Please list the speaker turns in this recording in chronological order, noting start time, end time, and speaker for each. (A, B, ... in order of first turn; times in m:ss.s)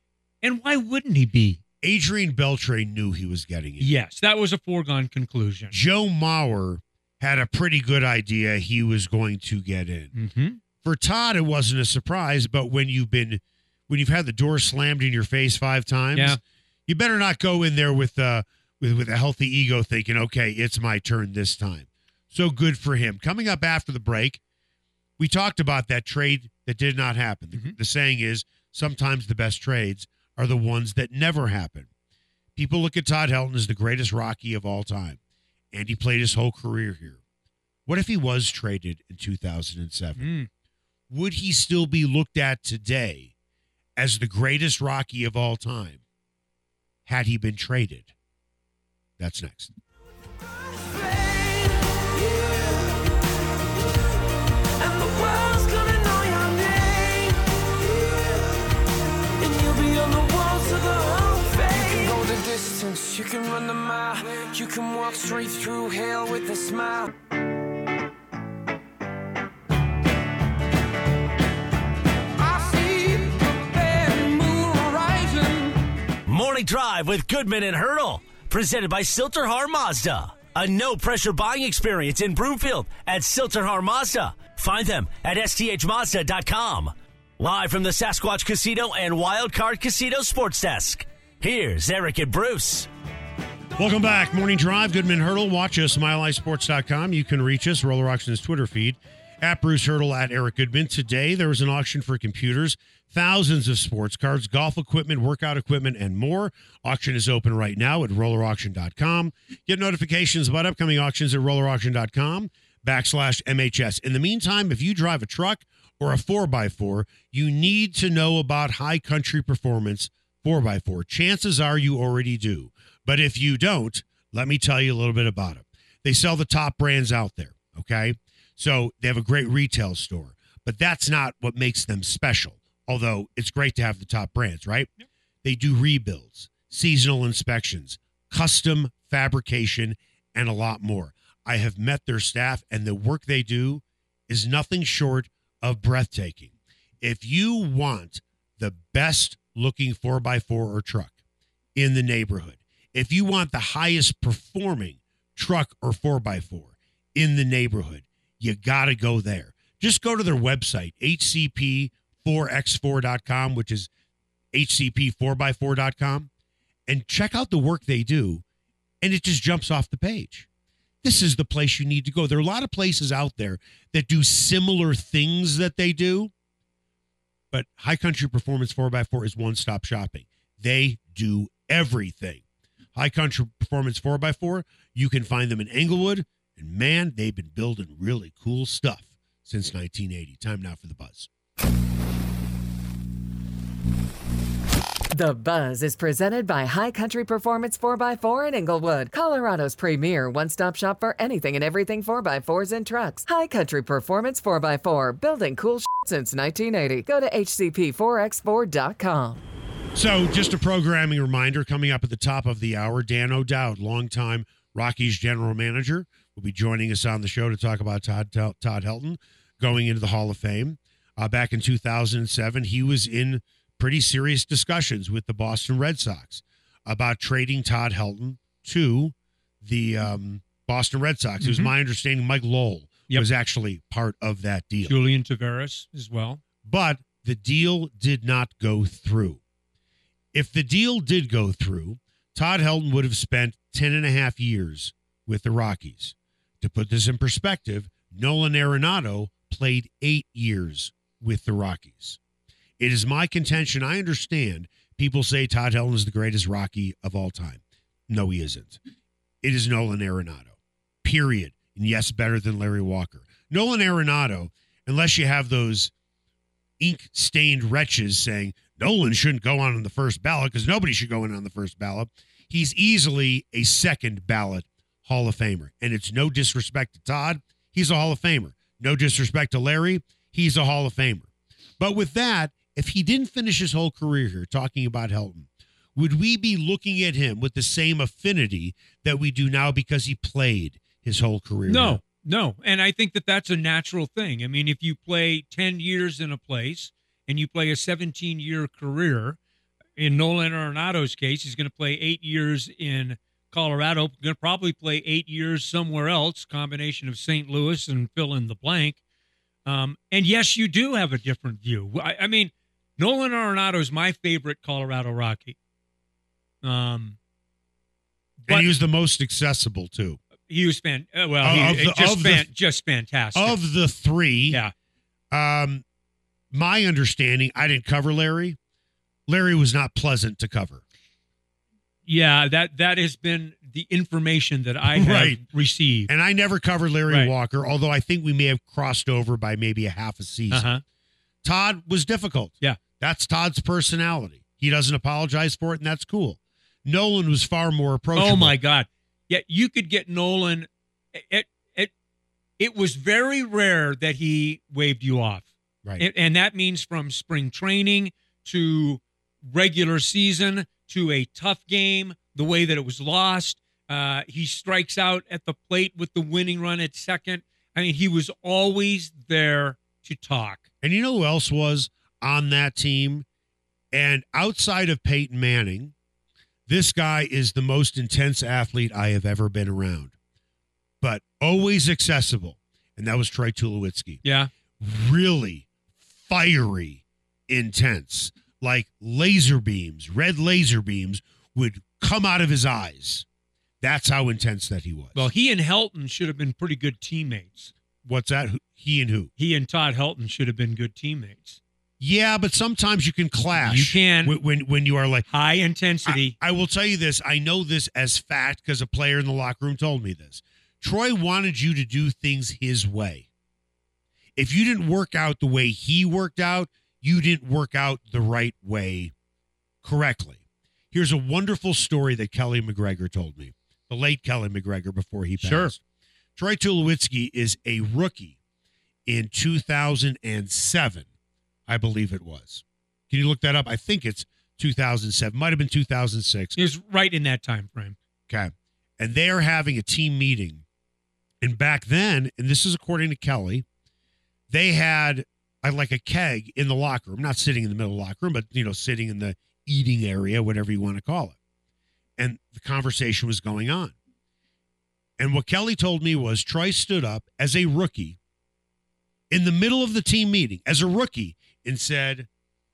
0:00.4-0:01.6 A
0:01.8-0:03.9 B
0:03.8-0:05.8 A
0:05.7-0:10.1 B
0:10.1-0:10.6 A
0:10.8-0:24.4 B
0:16.1-0:16.4 A
0:25.2-0:31.9 B
0:32.6-0:35.2 B
0:35.7-0:37.2 B
0:37.8-0:40.3 B
0:40.2-0:40.5 A
0:41.1-0:43.3 B
0:44.0-0:46.0 B
0:47.0-0:48.1 B
0:49.2-0:49.7 B
0:50.8-0:53.1 C
0:54.8-0:58.6 C
0:59.4-1:07.1 C
1:12.4-1:15.8 C
1:16.2-1:32.9 D
1:33.8-2:14.9 B
2:15.4-2:31.2 B
2:31.7-2:43.9 B
2:44.5-2:46.3 B
2:46.9-2:48.4 B
2:49.0-2:50.5 B
2:51.0-2:56.3 B
2:57.5-3:02.4 B
3:02.9-3:11.3 B
3:15.1-3:29.4 E
3:29.9-3:55.0 B
3:51.4-3:51.7 A
3:54.8-3:56.4 A
3:56.6-3:59.4 B
4:00.3-4:12.2 B
4:12.8-4:18.8 B
4:19.4-4:25.9 B
4:26.8-4:41.3 B
4:41.8-4:52.0 B
4:51.7-4:59.4 A
5:00.0-5:09.0 A
5:09.6-5:15.6 A
5:16.6-5:17.2 A
5:18.4-5:18.7 A
5:18.5-5:20.2 B
5:20.5-5:23.6 A
5:21.4-5:22.5 B
5:23.3-5:24.6 B
5:25.3-5:25.8 B
5:26.5-5:28.6 B
5:29.3-5:30.8 B
5:32.1-5:36.1 A
5:34.8-5:35.4 B
5:36.1-5:40.7 B
5:40.5-5:40.8 A
5:41.4-5:48.6 B
5:48.1-5:51.9 A
5:52.6-5:55.5 A
5:56.0-6:10.6 A
6:10.8-6:13.2 B
6:13.9-6:15.9 B
6:16.7-6:20.1 B
6:21.0-6:24.2 B
6:24.2-6:24.5 A
6:24.8-6:25.7 B
6:26.2-6:33.2 B
6:33.8-6:35.3 B
6:35.1-6:37.7 A
6:38.0-6:39.3 B
6:39.4-6:41.6 A
6:42.0-6:45.3 B
6:43.5-6:44.4 A
6:45.3-6:46.3 A
6:46.0-6:53.3 B
6:54.4-6:59.1 B
6:59.8-7:00.4 B
7:00.9-7:05.8 B
7:05.4-7:05.7 A
7:06.4-7:08.4 B
7:09.0-7:11.1 B
7:11.7-7:16.6 B
7:16.6-7:18.0 A
7:18.3-7:20.6 B
7:21.4-7:23.6 B
7:24.5-7:31.4 B
7:32.2-7:33.9 B
7:35.2-7:38.2 B
7:39.3-7:42.3 B